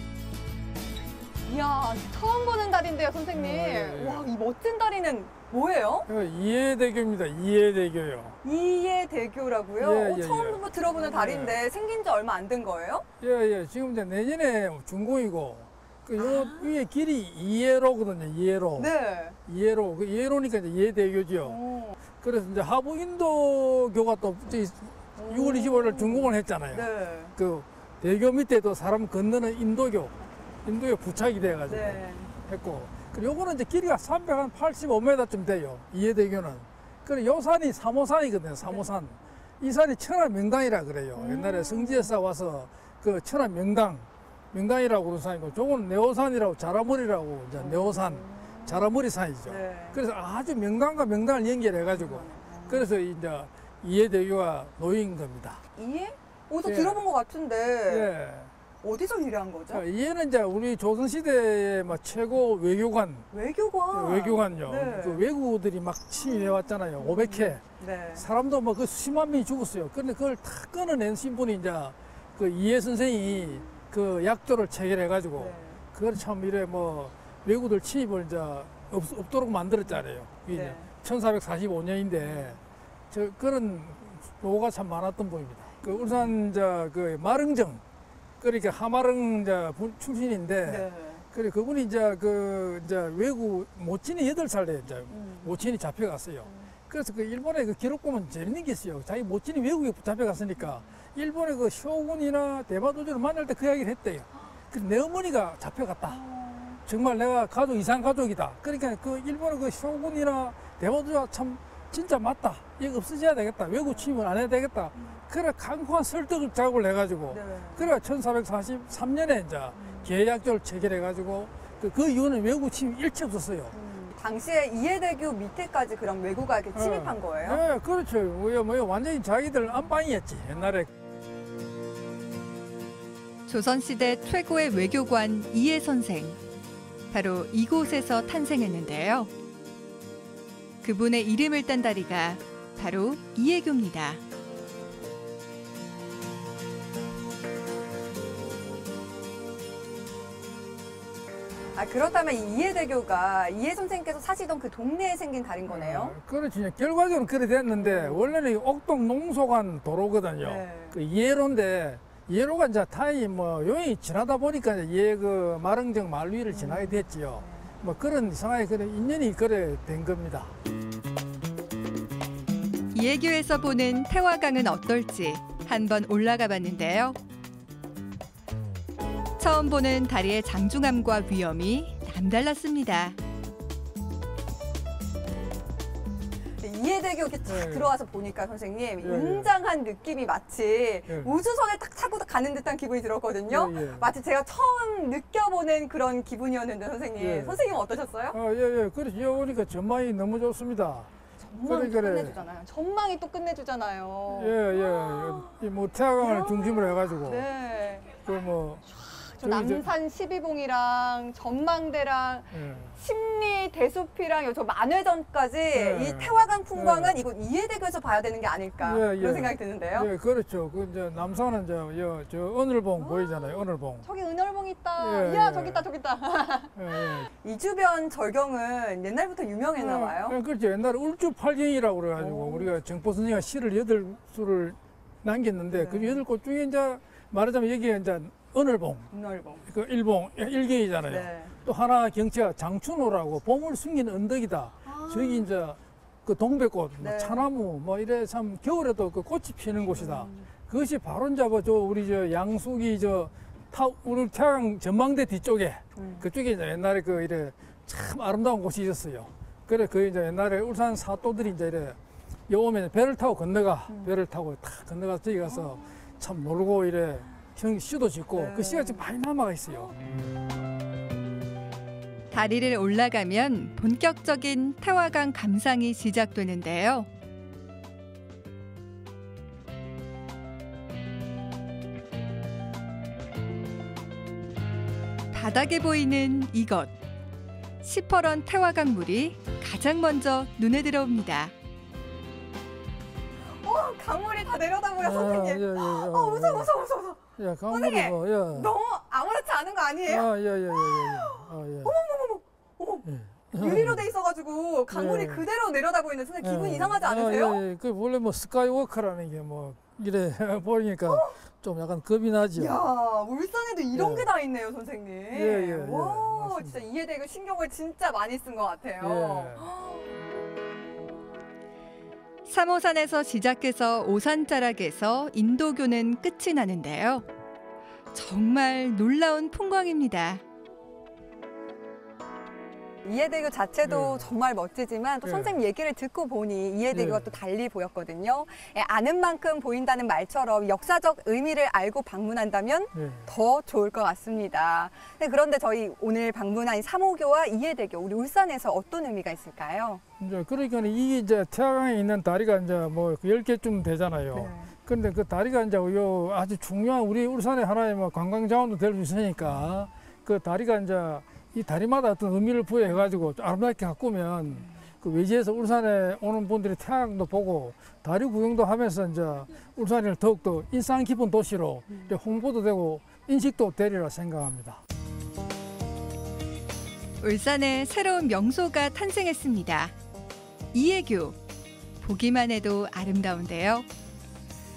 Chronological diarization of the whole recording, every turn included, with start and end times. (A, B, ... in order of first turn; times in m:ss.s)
0:01.5-0:06.1 A
0:03.3-0:04.3 B
0:06.1-0:08.4 B
0:08.4-0:13.0 A
0:09.8-0:11.6 B
0:13.2-0:18.9 B
0:16.2-0:16.7 A
0:18.8-0:19.4 A
0:19.5-0:21.6 B
0:21.4-0:22.0 A
0:22.2-0:55.6 B
0:25.2-0:27.3 A
0:31.7-0:32.3 A
0:41.1-0:42.1 A
0:47.6-0:48.9 A
0:49.4-0:50.0 A
0:51.9-0:52.9 A
0:55.7-0:58.1 A
0:56.6-0:57.0 B
0:57.9-0:58.5 B
0:58.8-0:59.8 A
0:59.7-1:03.3 B
1:03.3-1:05.2 A
1:03.9-1:07.6 B
1:07.0-1:08.2 A
1:08.2-1:22.6 B
1:15.4-1:15.8 A
1:20.5-1:20.9 A
1:22.3-1:22.6 A
1:23.1-1:27.8 B
1:25.9-1:26.3 A
1:28.4-1:46.2 B
1:30.6-1:31.2 A
1:35.1-1:35.6 A
1:36.4-1:36.7 A
1:46.1-1:46.8 A
1:46.8-2:03.7 B
1:53.8-1:54.1 A
1:57.3-1:57.9 A
2:03.7-2:07.6 A
2:06.7-2:10.9 B
2:13.5-2:16.4 C
2:17.1-2:19.3 C
2:20.8-2:24.2 C
2:31.7-2:36.1 A
2:35.6-2:50.5 B
2:37.8-2:38.4 A
2:40.4-2:41.0 A
2:46.5-2:47.7 A
2:52.9-2:57.2 C
2:59.4-3:03.2 C
3:06.6-3:18.4 A
3:07.4-3:08.0 B
3:09.0-3:09.5 B
3:11.0-3:11.3 B
3:13.5-3:14.1 B
3:17.2-3:17.6 B
3:18.3-3:21.1 B
3:21.4-3:25.5 A
3:21.6-3:22.4 B
3:24.3-3:27.4 B
3:26.2-3:28.1 A
3:28.2-3:28.9 B
3:29.1-3:40.1 A
3:29.4-3:29.9 B
3:32.5-3:32.9 B
3:35.7-3:37.2 B
3:38.8-3:44.0 B
3:43.0-3:50.4 A
3:45.0-3:45.9 B
3:46.7-3:47.3 B
3:49.8-3:59.1 B
3:52.2-3:52.7 A
3:55.7-3:56.2 A
3:59.1-3:59.6 A
3:59.6-4:29.9 B
4:01.1-4:01.5 A
4:04.8-4:05.5 A
4:07.0-4:07.4 A
4:09.9-4:10.4 A
4:16.0-4:16.3 A
4:23.9-4:24.1 A
4:28.3-4:29.1 A
4:32.3-4:37.1 C
4:45.3-4:46.9 C
4:47.8-4:51.5 C
4:53.6-5:00.3 A
4:55.0-4:56.7 B
4:57.4-4:58.7 B
5:00.0-5:02.0 B
5:00.8-5:07.6 A
5:03.0-5:04.1 B
5:04.9-5:05.5 B
5:06.4-5:12.8 B
5:11.0-5:11.4 A
5:12.5-5:20.1 A
5:13.9-5:14.3 B
5:15.3-5:16.8 B
5:19.0-5:19.7 B
5:22.4-5:27.2 C
5:28.1-5:30.4 C
5:33.0-5:50.0 A
5:33.8-5:34.3 B
5:35.2-5:35.6 B
5:36.9-5:37.3 B
5:42.9-5:43.3 B
5:50.2-6:14.8 B
5:54.3-5:54.7 A
6:17.2-6:19.9 C
6:20.7-6:21.4 C
6:22.0-6:23.9 C